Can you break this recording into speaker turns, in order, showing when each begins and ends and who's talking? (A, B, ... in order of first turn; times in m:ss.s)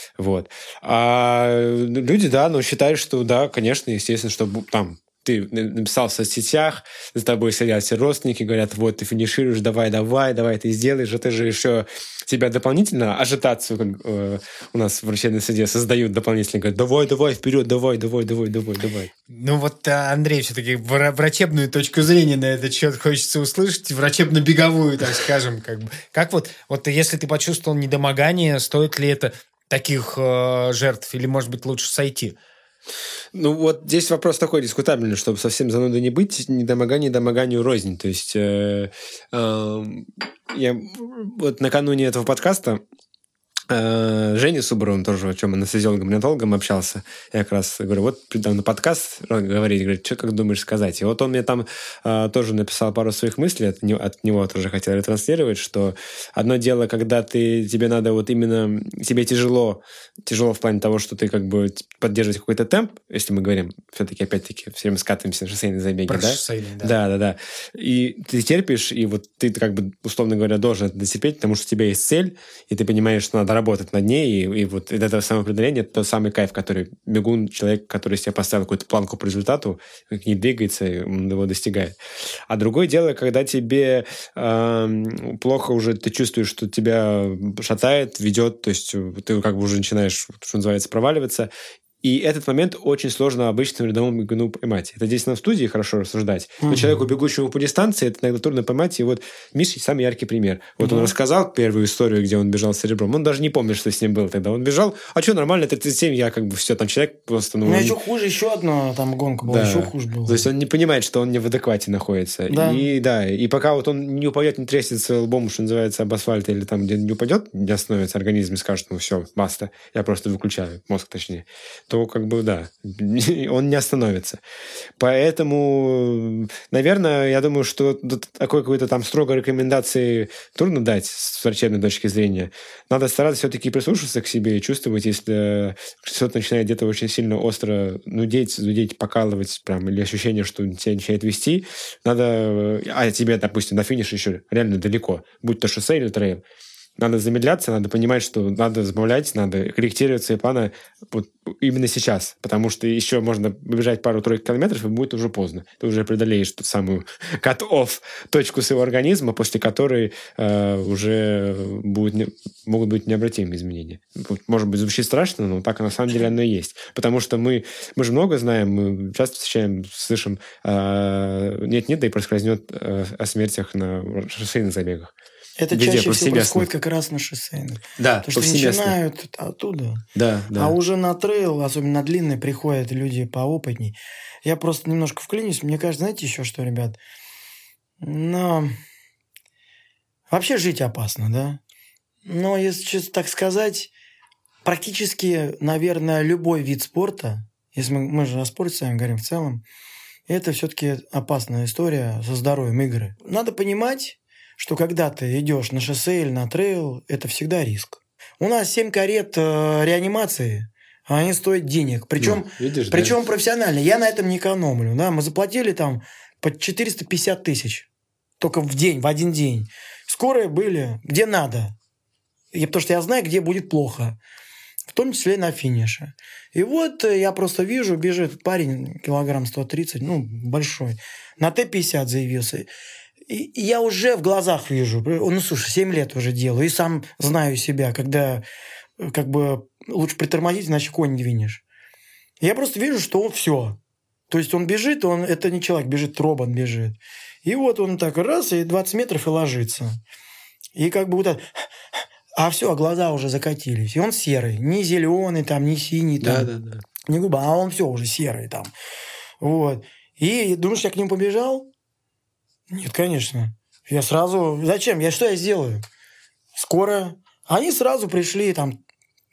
0:00.2-0:19.1 A
0:19.3-0:32.4 B
0:33.3-0:42.8 A
0:43.7-1:22.0 A
1:06.1-1:07.0 B
1:22.5-1:31.5 A
1:32.0-1:48.0 A
1:36.6-1:37.0 C
1:40.8-1:41.1 C
1:47.6-1:50.5 C
1:49.4-2:04.4 A
1:52.5-1:52.9 C
2:05.0-2:26.4 A
2:27.0-2:55.1 A
2:55.6-3:07.0 C
2:55.7-2:56.7 A
2:58.0-2:59.0 A
3:00.2-3:00.7 A
3:08.0-3:08.8 C
3:10.3-3:11.6 C
3:12.2-3:13.9 C
3:14.6-3:19.6 C
3:20.3-3:37.9 C
3:32.2-3:33.2 A
3:38.4-3:41.7 C
3:42.5-3:44.2 C
3:44.9-3:52.7 C
3:53.3-3:58.4 C
3:59.0-4:01.6 C
4:02.4-4:10.0 C
4:10.7-4:16.5 C
4:16.2-4:16.8 A
4:17.0-4:18.7 C
4:19.4-4:21.7 C
4:22.7-4:25.8 C
4:26.5-4:28.8 C